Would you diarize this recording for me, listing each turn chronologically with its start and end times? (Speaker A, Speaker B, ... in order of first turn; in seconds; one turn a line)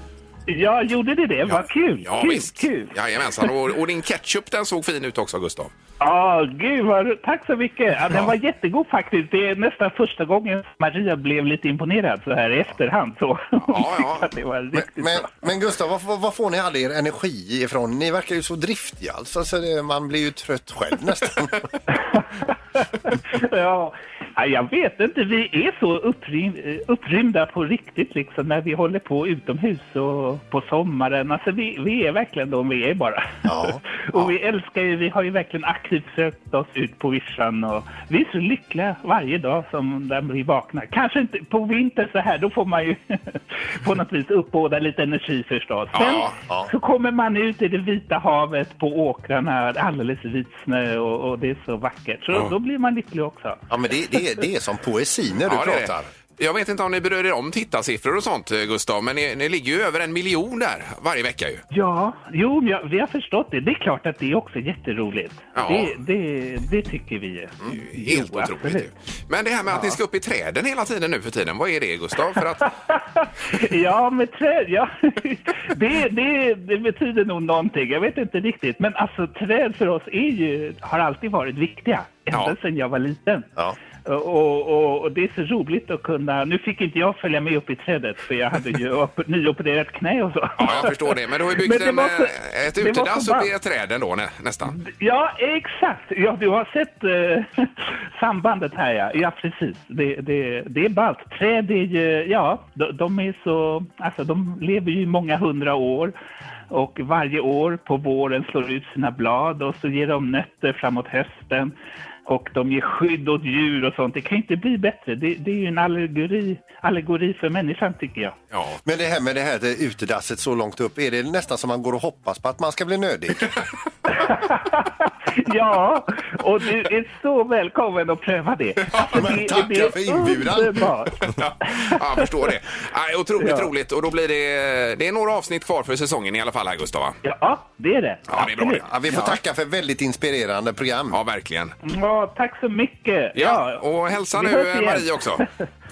Speaker A: 0.5-3.5
Speaker B: 1.5-5.7
Speaker A: 6.0-15.3
Speaker B: 13.6-14.3
Speaker C: 14.7-21.6
Speaker A: 21.9-53.6
Speaker C: 33.5-34.3
Speaker B: 46.0-46.4
Speaker C: 53.7-56.1
Speaker B: 55.5-61.6
Speaker A: 61.7-68.9
Speaker B: 65.5-65.9
Speaker B: 67.7-72.7
Speaker A: 69.7-70.0
Speaker A: 72.4-83.5
Speaker A: 84.0-93.5
Speaker B: 90.6-94.8
Speaker A: 94.7-106.2
Speaker A: 106.7-111.7
Speaker A: 112.3-118.4
Speaker B: 118.5-118.8
Speaker C: 118.8-123.5
Speaker A: 124.1-132.5
Speaker C: 129.1-130.9
Speaker B: 131.3-137.2
Speaker A: 133.4-133.7
Speaker A: 137.2-139.3
Speaker B: 138.3-139.3
Speaker C: 138.8-141.2
Speaker B: 141.1-141.7
Speaker A: 141.8-145.5
Speaker B: 143.3-145.4